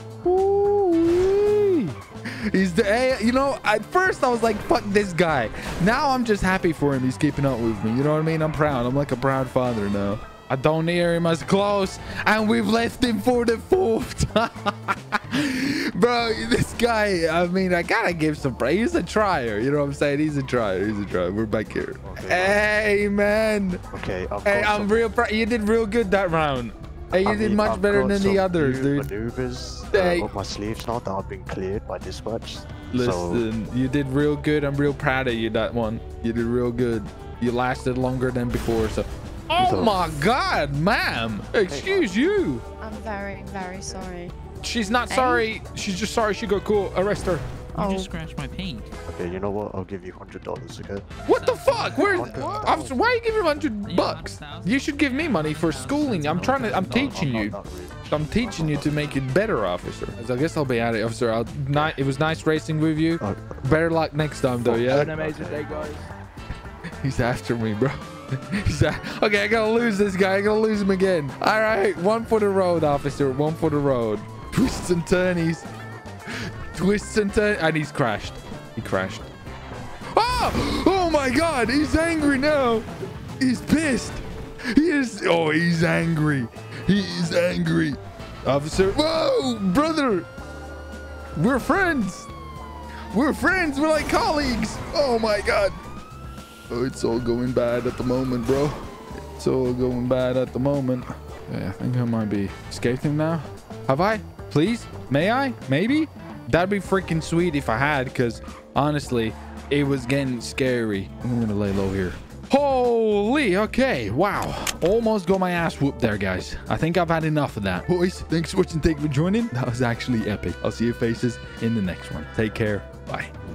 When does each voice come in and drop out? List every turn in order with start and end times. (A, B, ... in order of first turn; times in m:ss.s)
0:00.2-0:23.8 A
0:22.0-0:22.6 B
0:23.9-0:25.0 B
0:24.4-0:29.1 A
0:27.1-0:33.5 B
0:29.9-0:30.3 A
0:32.9-0:42.6 A
0:39.6-0:40.1 B
0:41.7-0:42.2 B
0:42.8-0:44.4 C
0:42.9-0:44.1 B
0:44.6-0:47.4 A
0:45.1-0:45.5 C
0:47.8-0:48.1 C
0:47.8-0:48.9 D
0:49.1-0:51.0 B
0:51.3-0:57.6 A
0:51.3-0:52.8 D
0:51.8-0:53.2 B
0:53.9-0:57.3 D
0:56.2-0:59.0 B
0:58.1-1:05.2 A
1:03.2-1:03.8 B
1:04.6-1:06.1 B
1:07.0-1:15.7 A
1:16.3-1:19.3 A
1:20.1-1:22.9 A
1:23.4-1:30.3 A
1:31.4-1:32.3 A
1:33.1-1:35.8 A
1:36.7-2:03.3 A